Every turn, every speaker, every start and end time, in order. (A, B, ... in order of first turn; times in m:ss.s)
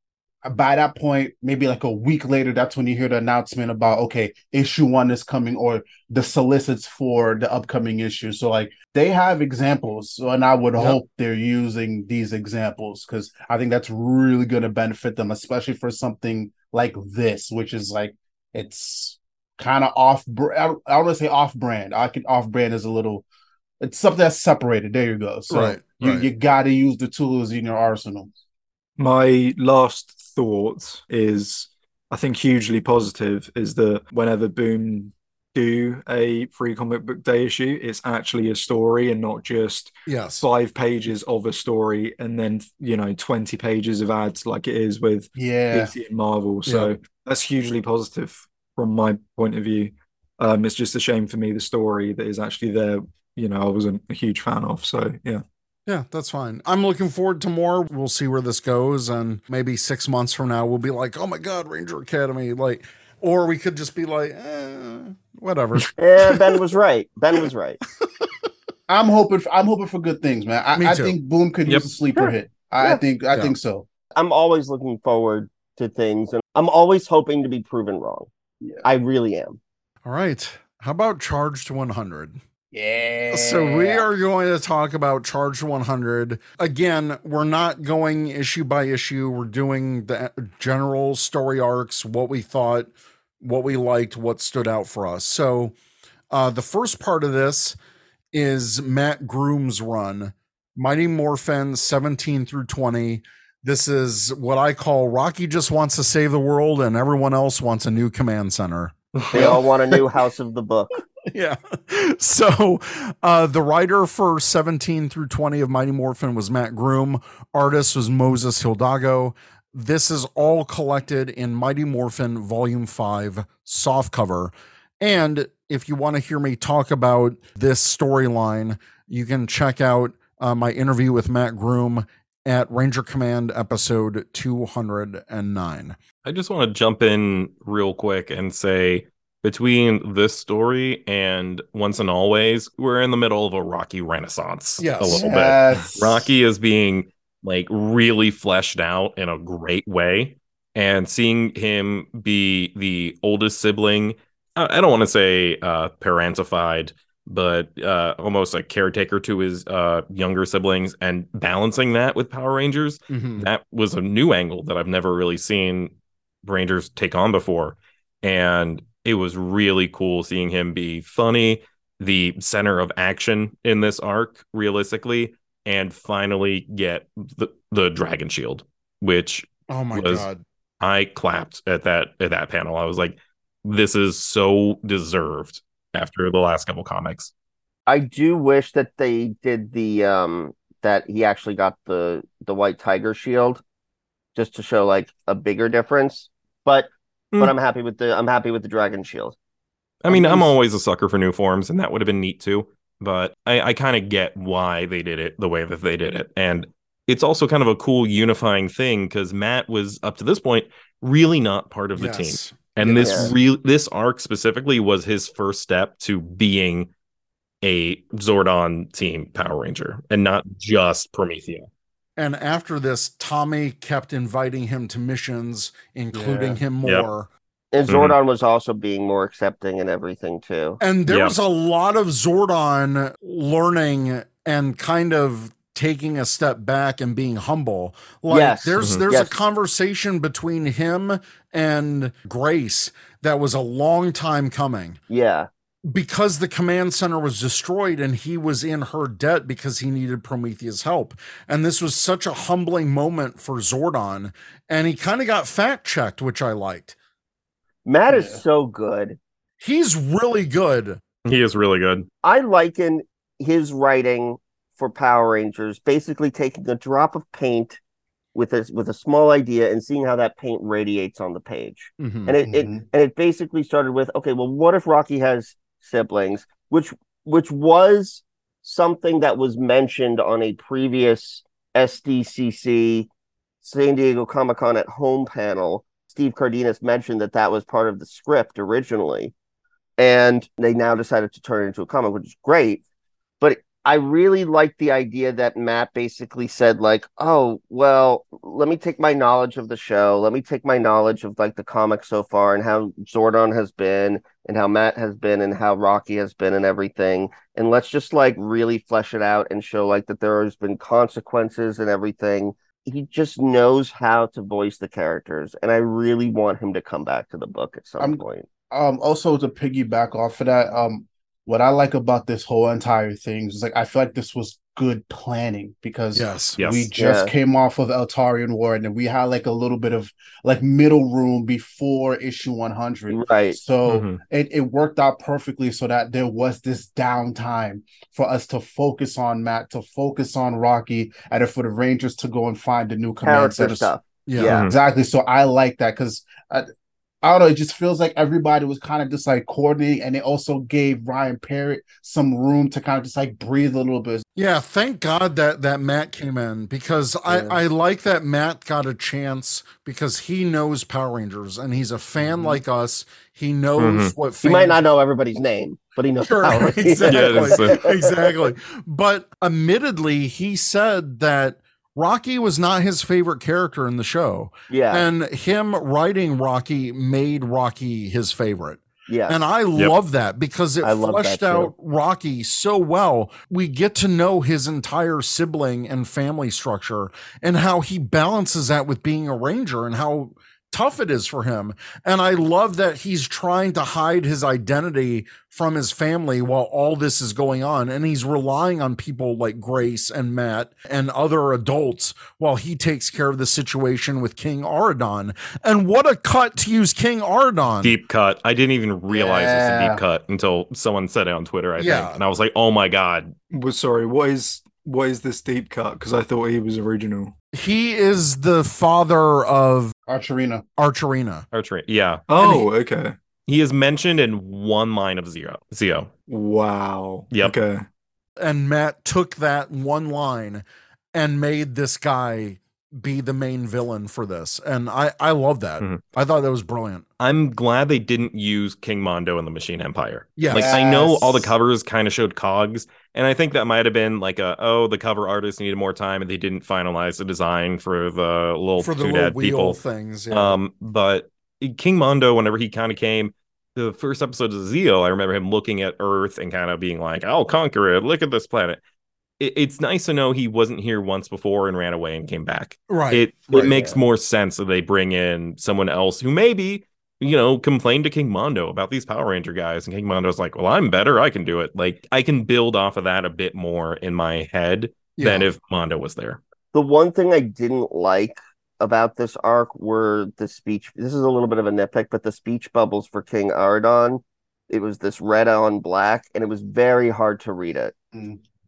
0:00.4-0:23.3 A
0:23.8-0:28.3 A
0:25.5-0:26.3 B
0:29.0-0:55.4 C
0:40.0-0:40.4 B
0:45.4-0:45.9 A
0:46.6-0:46.9 B
0:55.9-1:06.4 B
1:06.0-1:07.8 D
1:08.9-1:13.8 A
1:10.7-1:11.2 B
1:12.1-1:13.0 D
1:14.1-1:18.3 D
1:18.8-1:19.6 D
1:20.0-1:22.4 B
1:22.7-1:24.0 A
1:23.3-1:35.7 B
1:36.3-1:37.8 B
1:38.3-1:50.0 B
1:49.3-1:50.9 D
1:51.3-2:16.0 B
2:16.2-2:45.9 E
2:24.8-2:25.3 B
2:25.0-2:26.3 A
2:43.1-2:43.5 B
2:46.4-3:00.3 E
2:59.7-3:00.4 B
3:00.8-3:07.3 E
3:07.8-3:13.6 D
3:14.3-3:19.4 D
3:20.0-3:36.9 E
3:20.1-3:20.5 D
3:32.0-3:33.2 B
3:33.0-3:33.3 D
3:37.6-3:41.7 E
3:42.2-3:47.3 B
3:46.1-3:46.6 A
3:47.7-3:50.8 D
3:47.9-3:48.1 E
3:50.8-4:05.0 B
3:51.1-3:51.3 E
3:58.3-3:59.3 D
4:05.1-4:05.5 D
4:05.9-4:16.9 B
4:17.8-4:19.2 D
4:18.1-4:18.4 A
4:19.6-4:21.0 B
4:21.2-4:22.1 E
4:22.2-4:27.8 D
4:28.3-4:43.1 D
4:32.0-4:32.3 B
4:32.4-4:32.8 A
4:43.6-4:49.3 D
4:50.0-4:52.8 D
4:53.4-5:18.4 D
5:18.0-5:43.9 A
5:26.1-5:26.6 B
5:26.6-5:26.9 E
5:27.0-5:27.3 D
5:33.1-5:33.6 D
5:33.8-5:34.2 E
5:43.2-5:44.7 D
5:44.3-5:44.6 B
5:44.4-5:44.7 E
5:44.5-5:46.6 A
5:47.2-5:54.2 A
5:54.4-6:04.8 B
5:57.3-5:57.6 A
6:02.2-6:02.6 A
6:03.8-6:04.1 E
6:04.4-6:08.1 D
6:06.2-6:48.0 B
6:07.1-6:07.8 E
6:14.7-6:15.1 D
6:19.1-6:19.4 D
6:20.8-6:21.7 D
6:47.8-6:53.3 E
6:49.1-6:50.0 A
6:51.8-6:52.1 B
6:53.5-6:57.3 C
6:57.5-6:59.9 B
7:00.1-7:00.6 A
7:00.8-7:01.4 B
7:01.5-7:02.2 E
7:02.3-7:03.1 C
7:02.4-7:02.7 B
7:03.5-7:06.1 E
7:06.3-7:07.8 C
7:08.4-7:17.0 B
7:17.2-7:29.8 E
7:20.4-7:20.8 B
7:20.5-7:21.5 A
7:28.8-7:30.6 B
7:30.3-7:38.8 E
7:39.4-7:56.4 E
7:42.9-7:43.3 B
7:43.5-7:44.0 D
7:55.2-7:55.5 B
7:56.7-8:07.9 D
8:08.1-8:08.4 A